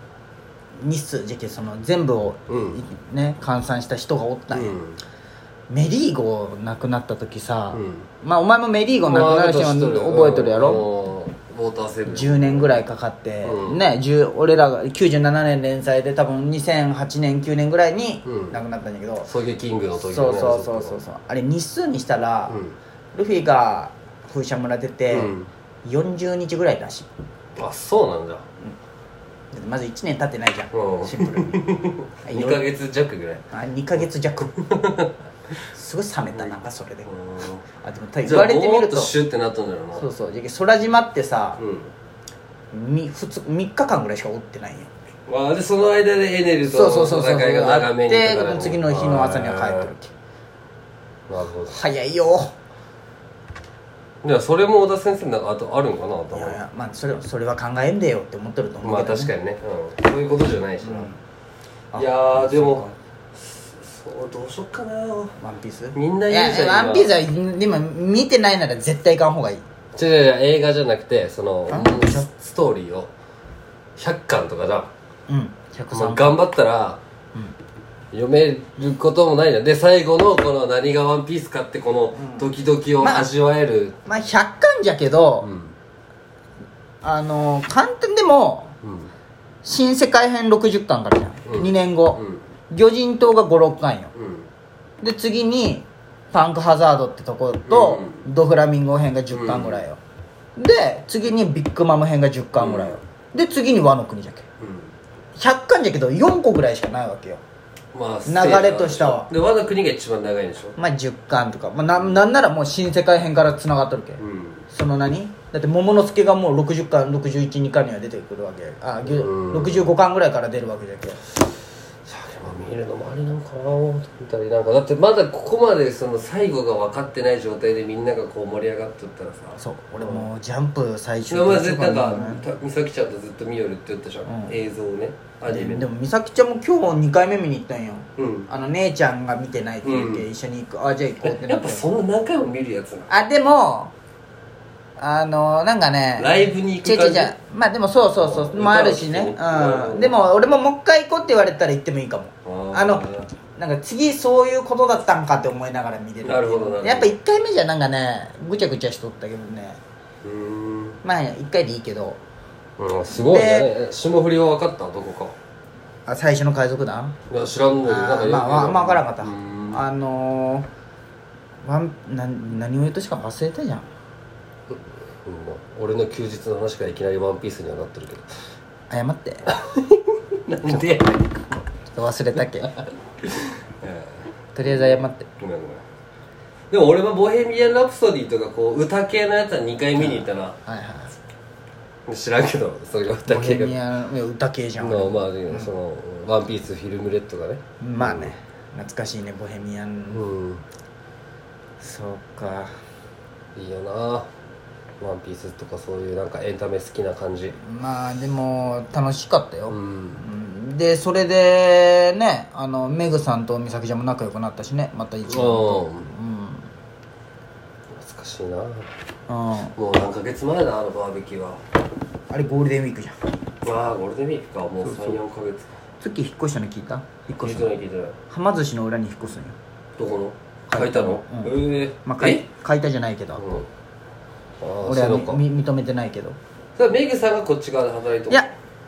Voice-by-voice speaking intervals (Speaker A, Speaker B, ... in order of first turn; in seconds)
Speaker A: 0.8-4.8, 5.7-10.9, 12.1-19.3, 20.1-22.6, 23.1-25.3, 25.9-27.1, 29.5-31.6, 32.2-32.6, 33.5-34.5, 35.7-37.1, 37.8-39.1, 40.0-41.6, 42.7-44.9, 46.6-50.1, 51.7-52.5, 56.3-59.3, 60.8-61.2, 61.9-63.0, 65.4-69.6, 71.7-72.3, 75.3-76.4, 82.2-82.5, 83.0-83.3, 84.1-85.5, 87.0-88.8, 89.6-94.1, 95.0-100.0, 100.6-104.5, 105.4-107.4, 108.3-109.3, 110.8-121.2, 129.6-132.4, 134.3-134.6, 135.5-141.9, 143.1-143.9, 145.0-159.8, 161.0-162.2, 163.1-163.7, 166.1-167.2, 167.8-170.7, 171.6-173.9, 178.9-179.6, 181.9-182.7, 184.6-185.3, 190.0-191.2, 193.3-195.7, 197.8-200.2, 201.8-202.7, 207.6-216.7, 219.3-219.8, 222.3-223.2, 224.8-225.2, 226.0-227.7, 228.3-229.6, 230.7-233.4, 234.8-236.4
Speaker B: 2.5-2.8, 4.5-5.0, 7.7-8.1, 9.0-12.8, 13.4-13.9, 18.2-18.6, 19.3-21.0, 22.5-22.8, 25.1-25.5, 27.6-28.4, 30.7-33.5, 34.5-35.1, 37.1-37.6, 38.2-40.1, 41.6-41.9, 45.3-49.9, 51.3-51.8, 54.2-56.6, 58.8-61.1, 62.0-62.8, 63.4-65.4, 66.0-67.2, 70.0-73.1, 74.0-74.9, 75.9-77.0, 78.1-84.0, 85.4-85.8, 88.8-89.1, 91.5-92.4, 94.2-94.5, 97.7-98.2, 99.3-99.8, 102.5-103.0, 104.6-104.9, 107.9-110.8, 114.2-114.7, 119.1-119.9, 122.0-130.3, 131.3-135.9, 138.2-138.5, 139.8-140.3, 141.2-143.1, 146.2-147.3, 148.1-150.2, 152.4-153.3, 156.2-157.2, 160.2-161.0, 162.8-165.3, 167.3-169.8, 174.7-178.2, 179.5-181.6, 182.6-185.8, 186.7-190.6, 192.1-193.8, 194.8-198.3, 200.1-200.6, 203.6-204.3, 205.0-207.6, 209.7-210.2, 215.3-216.1, 217.9-218.9, 219.8-221.6, 223.6-225.7, 227.4-228.2, 230.0-232.4, 233.4-233.7, 234.6-235.4, 236.8-238.5